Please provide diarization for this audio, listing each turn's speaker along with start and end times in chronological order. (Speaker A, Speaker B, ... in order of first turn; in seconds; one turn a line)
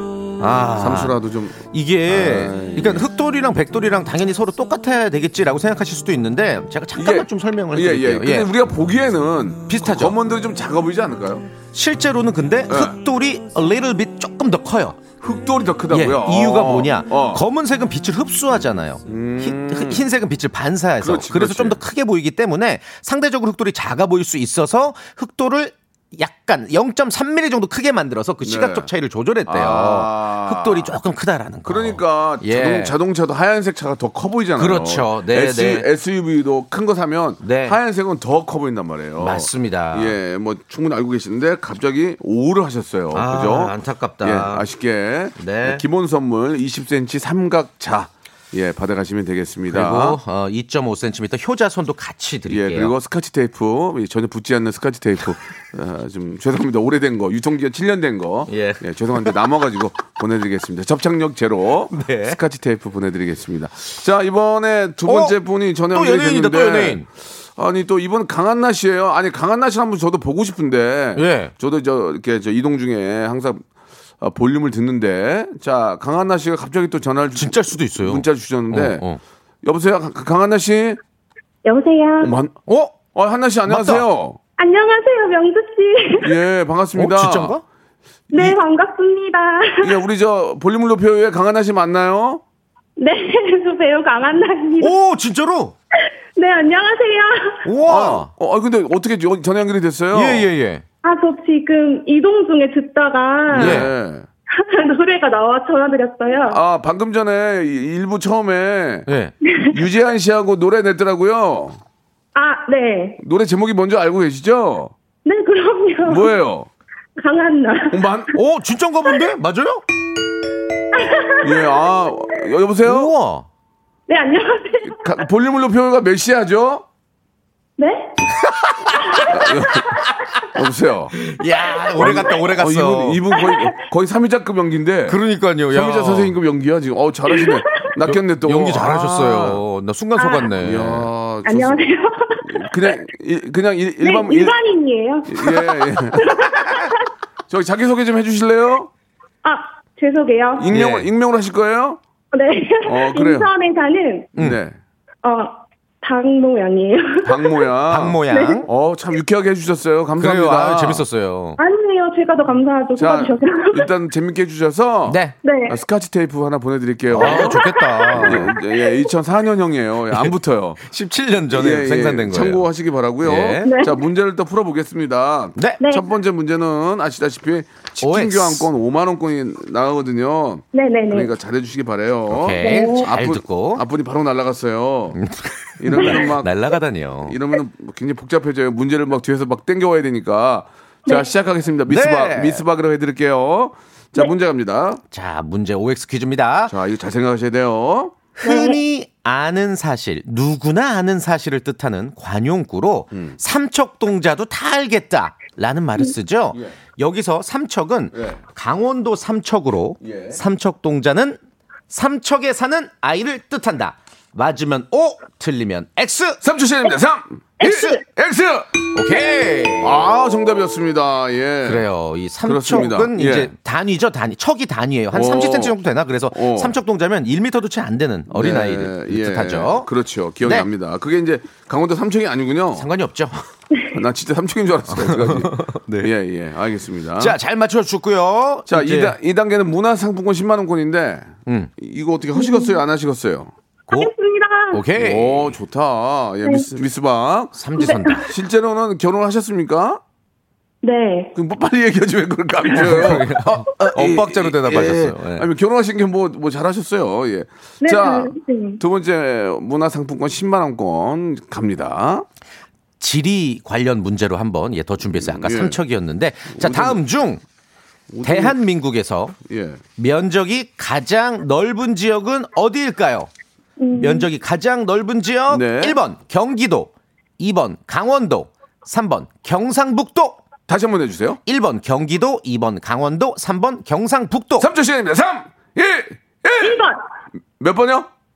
Speaker A: 0.4-1.1
Speaker B: 0.8-3.1
Speaker A: 1.7-8.5
Speaker B: 6.9-11.5
Speaker A: 9.7-10.2
Speaker A: 11.7-15.0
Speaker B: 12.7-12.9
Speaker B: 15.2-17.4
Speaker A: 15.9-33.0
Speaker B: 19.1-20.1
Speaker B: 21.0-21.8
Speaker B: 28.4-28.9
Speaker B: 29.4-30.9
Speaker B: 31.6-50.2
Speaker A: 34.6-35.9
Speaker A: 37.4-37.8
Speaker A: 39.2-40.2
Speaker A: 43.1-44.6
Speaker A: 45.4-45.8
Speaker A: 49.7-52.9
Speaker B: 52.5-73.6
Speaker A: 58.5-59.4
Speaker A: 61.9-62.4
Speaker A: 65.0-65.3
Speaker A: 65.9-67.0
Speaker A: 71.2-71.5
Speaker B: 74.2-79.0
Speaker A: 77.3-79.2
Speaker B: 79.6-81.0
Speaker C: 81.6-82.3
Speaker B: 82.2-82.6
Speaker A: 82.7-82.9
Speaker B: 83.1-84.4
Speaker A: 83.7-84.0
Speaker C: 84.6-86.3
Speaker B: 86.2-87.6
Speaker A: 86.9-87.6
Speaker C: 88.3-89.9
Speaker B: 89.8-92.4
Speaker C: 93.0-94.9
Speaker A: 94.8-95.7
Speaker C: 96.3-97.6
Speaker A: 97.6-98.3
Speaker B: 97.8-100.5
Speaker A: 100.1-100.8
Speaker C: 101.0-103.9
Speaker B: 103.5-104.3
Speaker A: 103.5-103.9
Speaker C: 104.5-106.6
Speaker B: 106.3-109.1
Speaker A: 109.1-109.3
Speaker C: 109.4-109.8
Speaker B: 109.7-111.8
Speaker C: 112.3-113.2
Speaker B: 113.2-114.9
Speaker C: 115.2-116.3
Speaker B: 116.0-116.7
Speaker C: 117.2-118.0
Speaker B: 117.9-118.3
Speaker A: 118.3-119.8
Speaker C: 120.9-121.8
Speaker B: 121.4-123.1
Speaker A: 122.8-123.5
Speaker C: 124.1-125.2
Speaker B: 124.8-126.8
Speaker C: 127.8-128.2
Speaker A: 128.4-129.3
Speaker B: 129.3-130.0
Speaker A: 129.9-130.4
Speaker B: 130.5-131.2
Speaker A: 131.1-133.2
Speaker B: 131.9-135.2
Speaker C: 133.3-133.7
Speaker A: 135.1-136.3
Speaker B: 135.7-139.6
Speaker A: 138.1-141.1
Speaker C: 140.2-140.5
Speaker B: 140.6-141.8
Speaker C: 141.4-142.9
Speaker B: 142.4-144.6
Speaker C: 144.0-147.1
Speaker B: 145.3-146.9
Speaker B: 147.5-148.9
Speaker C: 149.4-150.7
Speaker B: 150.6-152.0
Speaker A: 150.7-151.1
Speaker C: 152.3-154.3
Speaker B: 152.8-153.5
Speaker B: 154.4-154.8
Speaker C: 155.2-157.7
Speaker B: 157.2-161.0
Speaker A: 157.9-158.7
Speaker C: 158.3-158.6
Speaker A: 160.2-161.6
Speaker C: 161.6-163.9
Speaker B: 162.9-170.8
Speaker A: 165.1-165.3
Speaker C: 165.4-165.8
Speaker A: 167.1-168.5
Speaker C: 167.2-169.0
Speaker A: 170.8-172.6
Speaker B: 171.5-185.2
Speaker A: 173.2-173.8
Speaker C: 173.6-174.0
Speaker A: 178.0-178.7
Speaker C: 180.7-181.3
Speaker A: 182.3-183.8
Speaker C: 182.6-183.1
Speaker A: 185.2-187.4
Speaker B: 185.8-186.5
Speaker C: 185.9-186.3
Speaker B: 187.2-195.0
Speaker A: 191.9-192.6
Speaker A: 195.1-196.7
Speaker B: 196.7-198.2
Speaker C: 198.4-198.8
Speaker A: 198.4-211.4
Speaker B: 203.1-203.4
Speaker B: 208.1-208.4
Speaker B: 210.0-210.4
Speaker A: 211.9-216.4
Speaker B: 216.4-218.7
Speaker A: 217.6-217.9
Speaker A: 218.9-220.0
Speaker B: 219.8-221.8
Speaker A: 221.7-229.9
Speaker B: 222.4-223.5
Speaker B: 225.1-225.8
Speaker B: 226.3-226.7
Speaker B: 228.3-232.9
Speaker A: 230.4-230.7
Speaker A: 232.8-233.4
Speaker B: 233.9-237.4
Speaker A: 234.9-236.1
Speaker A: 237.2-239.2
Speaker B: 238.7-243.5
Speaker A: 241.4-241.7
Speaker C: 242.3-242.8
Speaker C: 243.9-244.8
Speaker A: 244.7-245.5
Speaker B: 245.0-247.5
Speaker A: 247.5-248.3
Speaker C: 247.8-248.2
Speaker B: 248.1-250.0
Speaker C: 250.8-251.3
Speaker B: 251.3-262.2
Speaker A: 252.7-255.5
Speaker C: 257.8-258.8
Speaker A: 263.0-267.4
Speaker B: 265.1-265.8
Speaker B: 266.5-267.0
Speaker B: 268.1-268.6
Speaker A: 268.2-269.4
Speaker B: 269.4-269.8
Speaker A: 270.0-273.3
Speaker C: 273.8-274.3
Speaker A: 274.0-280.4
Speaker B: 275.5-276.0
Speaker B: 280.7-281.4
Speaker A: 281.4-284.7
Speaker B: 284.6-286.8
Speaker C: 286.6-287.0
Speaker B: 287.6-288.1